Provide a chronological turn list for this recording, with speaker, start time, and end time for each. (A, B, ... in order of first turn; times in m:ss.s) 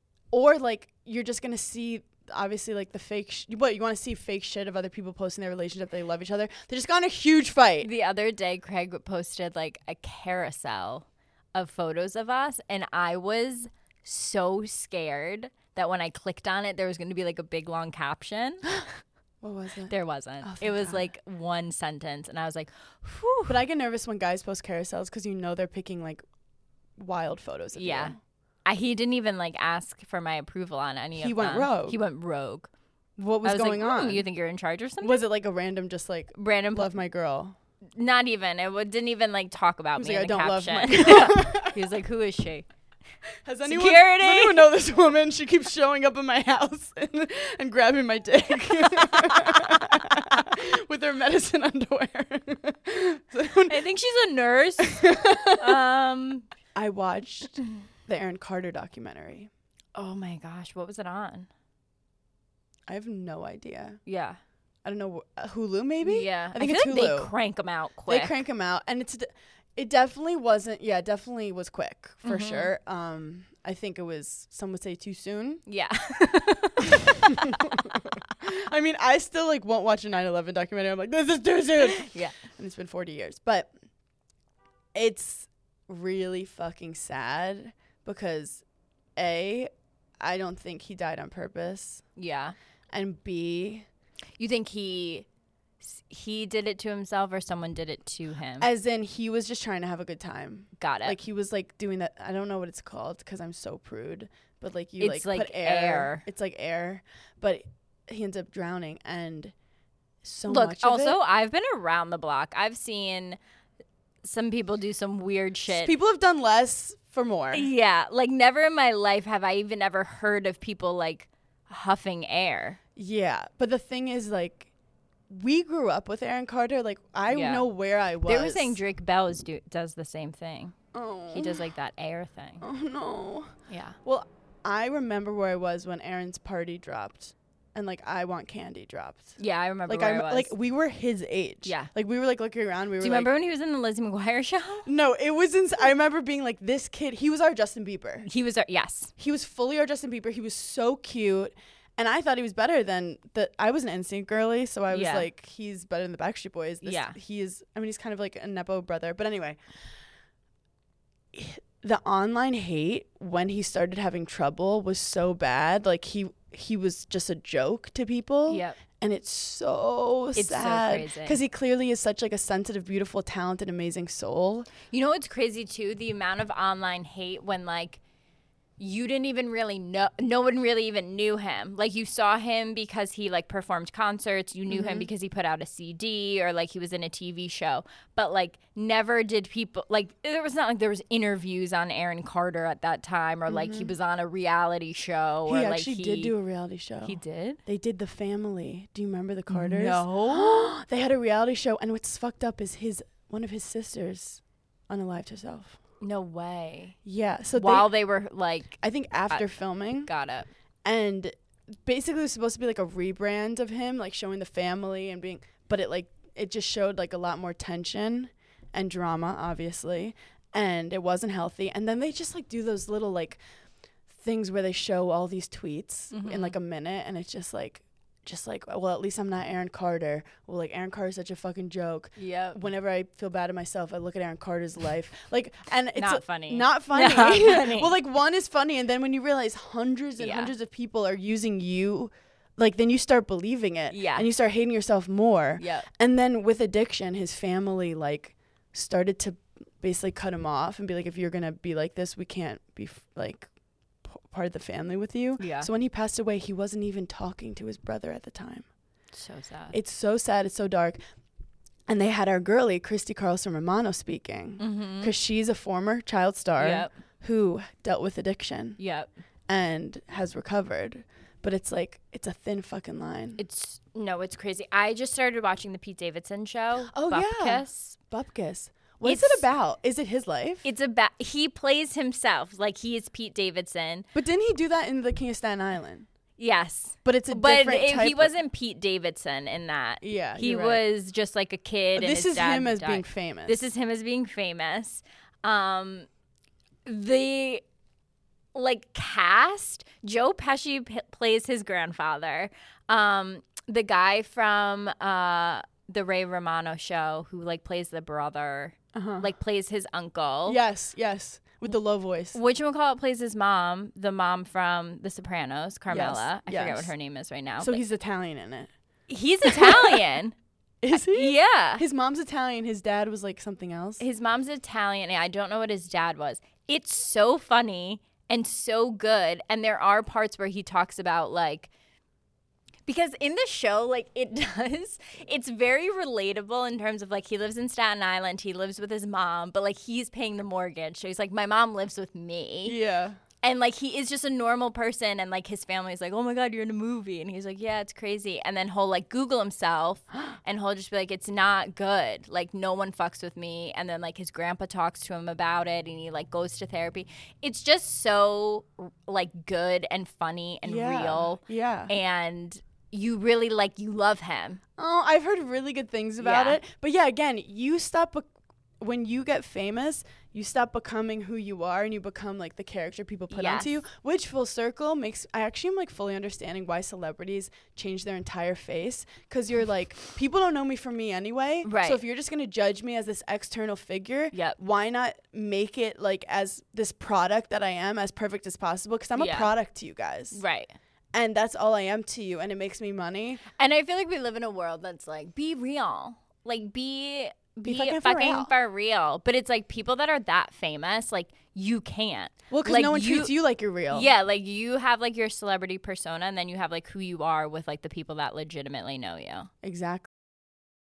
0:00.3-0:07.9 A
0:07.8-0:18.7 B
0:19.4-0:21.1 A
0:19.9-0:23.6 B
0:23.5-0:26.2 A
0:27.0-0:28.2 A
0:27.8-0:32.7 B
0:31.2-0:32.0 A
0:33.2-0:34.3 A
0:33.4-0:35.3 B
0:35.0-0:37.6 A
0:36.4-0:36.9 B
0:38.0-0:42.7 B
0:40.0-0:41.8 A
0:43.4-0:53.8 A
0:43.6-0:44.7 B
0:53.7-0:56.5 B
0:54.8-0:55.8 A
0:56.8-0:59.5 A
1:00.0-1:01.5 B
1:02.9-1:04.0 A
1:04.1-1:04.4 B
1:04.8-1:07.3 A
1:06.0-1:08.4 B
1:08.1-1:15.6 A
1:12.2-1:12.7 B
1:15.7-1:17.0 B
1:16.8-1:23.7 A
1:22.0-1:22.4 B
1:24.9-1:28.6 A
1:29.2-1:32.0 A
1:32.2-1:32.6 B
1:32.9-1:33.9 A
1:34.4-1:35.3 B
1:35.8-1:38.7 B
1:38.6-1:49.5 A
1:40.8-1:41.2 B
1:45.0-1:46.2 B
1:50.2-1:51.2 A
1:50.5-1:53.4 B
1:54.2-1:55.9 B
1:55.7-1:57.7 A
1:57.5-2:02.8 B
2:03.0-2:04.7 A
2:05.3-2:08.8 A
2:07.3-2:07.7 B
2:08.3-2:10.8 B
2:10.9-2:11.6 A
2:11.3-2:12.6 B
2:12.6-2:23.3 A
2:13.7-2:14.0 B
2:19.4-2:20.5 B
2:21.6-2:21.9 B
2:23.0-2:24.9 B
2:24.8-2:28.3 A
2:28.2-2:29.1 B
2:29.2-2:39.6 A
2:34.9-2:35.3 B
2:36.8-2:37.2 B
2:41.3-2:54.7 A
2:48.5-2:48.8 B
2:50.4-2:51.4 B
2:54.9-2:58.0 B
2:58.8-3:16.3 B
3:04.7-3:05.1 A
3:13.5-3:13.9 A
3:15.5-3:25.8 A
3:17.0-3:17.6 B
3:19.5-3:20.8 B
3:26.0-3:27.0 B
3:27.0-3:27.9 A
3:27.5-3:28.8 B
3:28.8-3:30.1 A
3:30.0-3:30.5 B
3:30.8-3:43.4 A
3:44.1-4:13.5 A
3:46.1-3:46.6 B
3:52.2-3:52.6 B
3:56.0-3:57.9 B
4:00.2-4:00.5 B
4:03.9-4:04.3 B
4:05.6-4:05.9 B
4:14.1-4:18.7 A
4:15.4-4:15.7 B
4:19.1-4:19.8 B
4:19.7-4:21.0 A
4:21.9-4:28.8 A
4:24.6-4:25.1 B
4:26.6-4:26.9 B
4:28.8-4:29.1 B
4:29.5-4:33.4 A
4:33.4-4:38.0 B
4:36.9-4:40.7 A
4:39.0-4:39.5 B
4:40.6-4:44.1 B
4:44.1-4:46.1 A
4:46.4-4:56.1 B
4:47.0-4:48.3 A
4:50.0-4:50.8 A
4:52.0-4:53.6 A
4:56.9-4:57.6 B
4:58.5-5:10.6 B
5:08.9-5:09.3 A
5:10.5-5:12.4 A
5:12.3-5:17.8 B
5:15.9-5:16.9 A
5:17.6-5:18.7 A
5:19.1-5:20.4 B
5:19.4-5:20.0 A
5:20.8-5:24.0 A
5:20.9-5:21.8 B
5:24.0-5:31.7 B
5:32.9-5:42.8 B
5:42.6-5:43.2 A
5:43.4-6:04.6 B
6:00.6-6:01.9 A
6:04.8-6:08.3 A
6:06.2-6:06.6 B
6:08.8-6:30.4 A
6:13.3-6:13.8 B
6:21.6-6:22.0 B
6:24.3-6:24.6 B
6:29.2-6:29.5 B
6:30.3-6:30.7 B
6:31.1-6:33.4 A
6:33.6-6:43.3 B
6:37.6-6:38.5 A
6:42.5-6:44.1 A
6:43.9-6:49.5 B
6:49.6-6:50.1 A